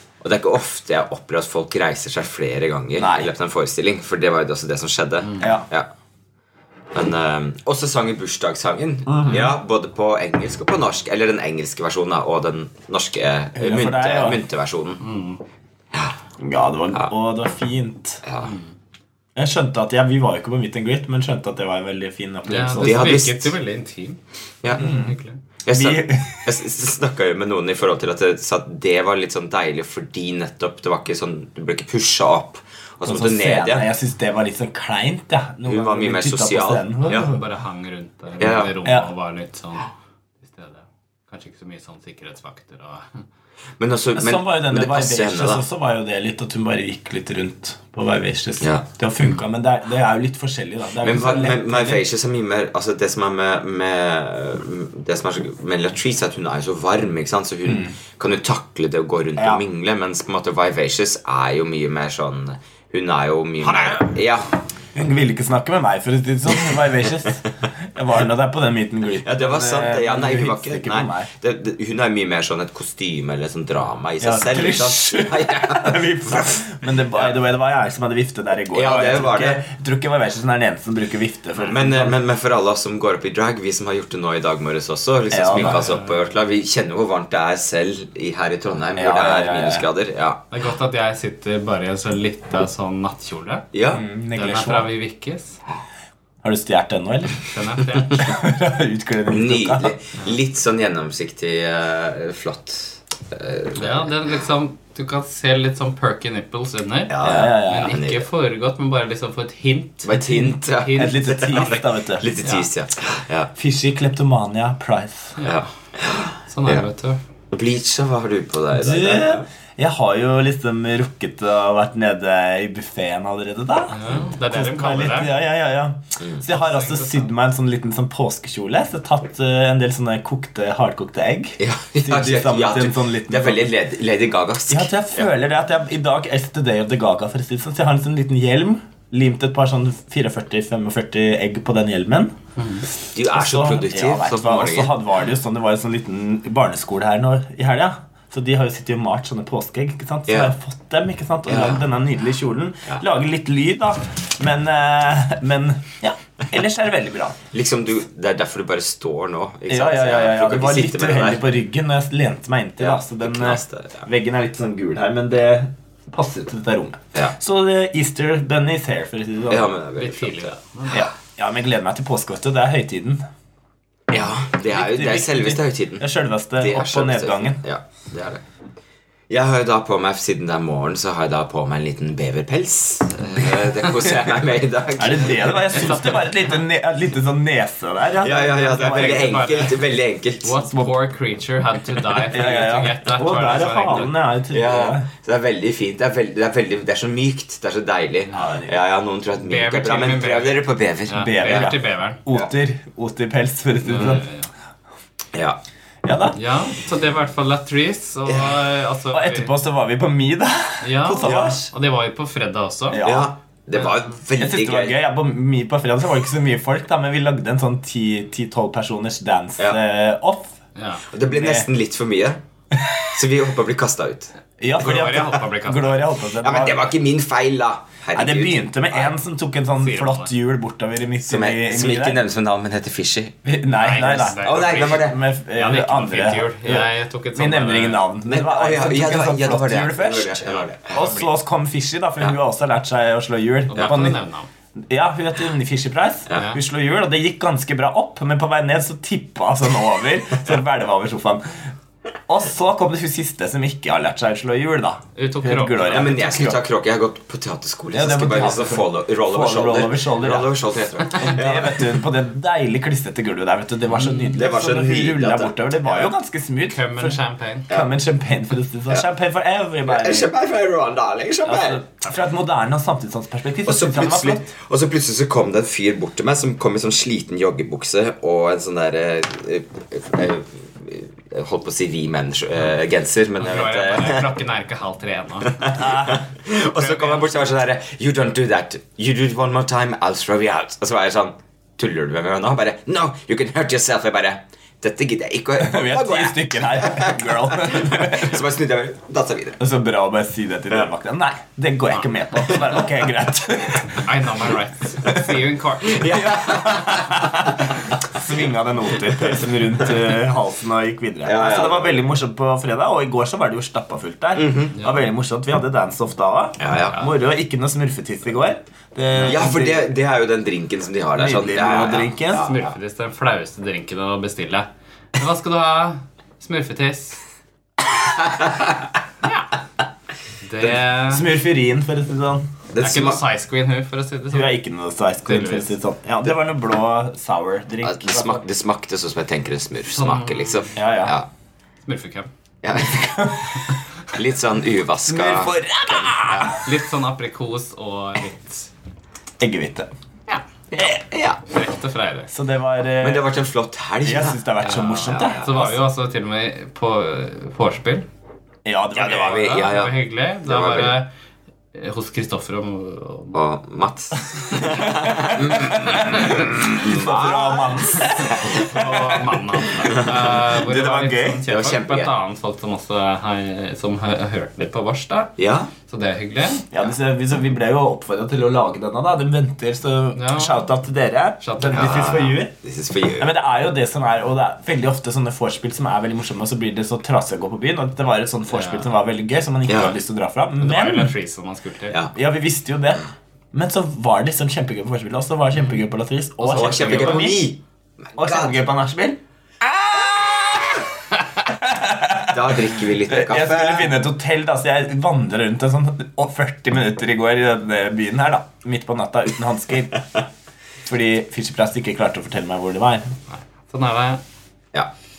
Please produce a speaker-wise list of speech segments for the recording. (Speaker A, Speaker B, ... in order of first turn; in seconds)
Speaker A: 0.2-5.9, 6.9-15.0, 18.2-18.5, 22.8-23.5, 24.6-24.9, 25.6-33.9, 35.6-37.3, 38.4-38.7, 43.8-45.6, 48.6-48.9, 51.0-64.5, 69.2-77.4, 78.7-79.6, 81.6-90.4, 93.7-94.0, 99.3-104.1, 107.1-108.2, 110.0-113.5, 115.4-116.9, 117.5-119.5, 124.1-124.3, 131.6-135.3, 143.1-144.9, 150.3-150.5, 151.5-151.8, 157.5-161.4, 162.8-164.1, 169.5-171.1, 174.1-178.4, 179.3-185.9, 188.2-190.6, 194.5-201.7, 205.3-205.6, 208.2-208.6, 211.2-211.6, 213.0-215.0, 221.1-222.4, 223.0-224.3, 226.4-229.1, 231.2-233.3, 234.3-235.2, 238.2-241.1, 243.7-244.0, 255.8-261.9, 264.3-266.1, 269.9-271.8, 273.6-284.3, 285.6-299.6, 302.4-302.9, 305.8-307.2, 311.2-312.0, 314.4-314.7, 316.6-317.1, 319.2-322.7, 328.1-328.6, 332.7-333.2, 337.8-341.3, 342.6-346.1, 350.7-351.4, 353.0-354.4, 355.0-355.7, 359.2-361.0, 363.3-368.5, 369.8-370.1, 371.5-372.1, 375.4-375.7, 381.7-383.3, 389.7-390.0, 396.5-397.6, 398.1-398.6, 402.3-404.0
Speaker B: 3.0-3.3, 5.4-5.7, 9.1-9.5, 13.5-14.4, 16.4-18.2, 19.4-23.2, 24.8-25.1, 25.7-26.5, 33.0-37.4, 38.8-39.1, 44.1-52.0, 57.6-57.9, 59.4-59.6, 64.9-71.3, 74.2-82.2, 85.3-85.9, 88.9-89.9, 93.9-94.9, 96.4-97.4, 98.1-99.9, 107.2-107.9, 110.9-112.3, 113.5-115.4, 118.7-133.7, 134.7-142.3, 143.3-157.4, 159.7-169.7, 170.9-173.2, 174.6-177.6, 184.9-189.5, 190.7-190.9, 192.3-195.1, 198.3-198.7, 201.2-204.2, 206.0-206.4, 209.1-211.7, 212.9-213.3, 214.4-220.5, 221.3-221.7, 224.6-226.9, 228.1-232.2, 233.4-244.2, 244.9-251.7, 252.3-256.6, 257.9-270.3, 271.4-274.5, 285.7-286.2, 295.6-298.4, 299.6-305.5, 306.0-307.6, 308.1-319.9, 321.1-322.5, 331.1-332.4, 334.3-338.4, 340.7-341.1, 343.0-343.5, 345.1-346.7, 349.4-349.9, 352.3-353.4, 354.0-355.8, 358.6-359.5, 364.8-371.4, 376.7-382.5, 383.2-391.1, 392.1-397.5, 398.1-399.2, 399.9-400.4, 401.4-410.2, 410.8-413.1
Speaker C: 5.2-5.5, 15.0-15.4, 18.4-18.7, 22.4-24.2, 24.8-25.4, 37.0-39.9, 40.4-43.2, 85.5-86.3, 90.5-93.7, 94.3-95.6, 97.4-98.3, 103.7-111.7, 112.4-112.7, 115.4-115.6, 116.5-117.2, 123.9-125.3, 126.4-127.3, 142.6-142.9, 169.9-171.1, 185.4-186.6, 188.8-189.9, 190.4-194.2, 198.3-198.6, 199.4-202.2, 203.8-204.5, 206.3-209.5, 210.8-213.0, 213.8-214.1, 220.7-221.0, 224.8-226.1, 229.8-230.3, 233.7-238.2, 240.9-241.3, 243.7-244.5, 246.3-246.6, 255.1-256.0, 263.9-264.4, 266.6-267.7, 283.4-285.9, 286.6-287.4, 304.0-306.0, 314.7-315.1, 322.3-327.2, 329.2-329.5, 330.4-331.3, 332.8-334.6, 335.2-335.7, 339.9-340.8, 341.8-342.3, 346.3-348.7, 351.4-352.3, 354.6-358.1, 358.9-361.1, 361.7-363.4, 368.4-375.3, 375.9-376.7, 380.1-380.7, 381.4-382.4, 388.5-388.9, 390.6-392.0, 396.4-397.3, 413.3-414.2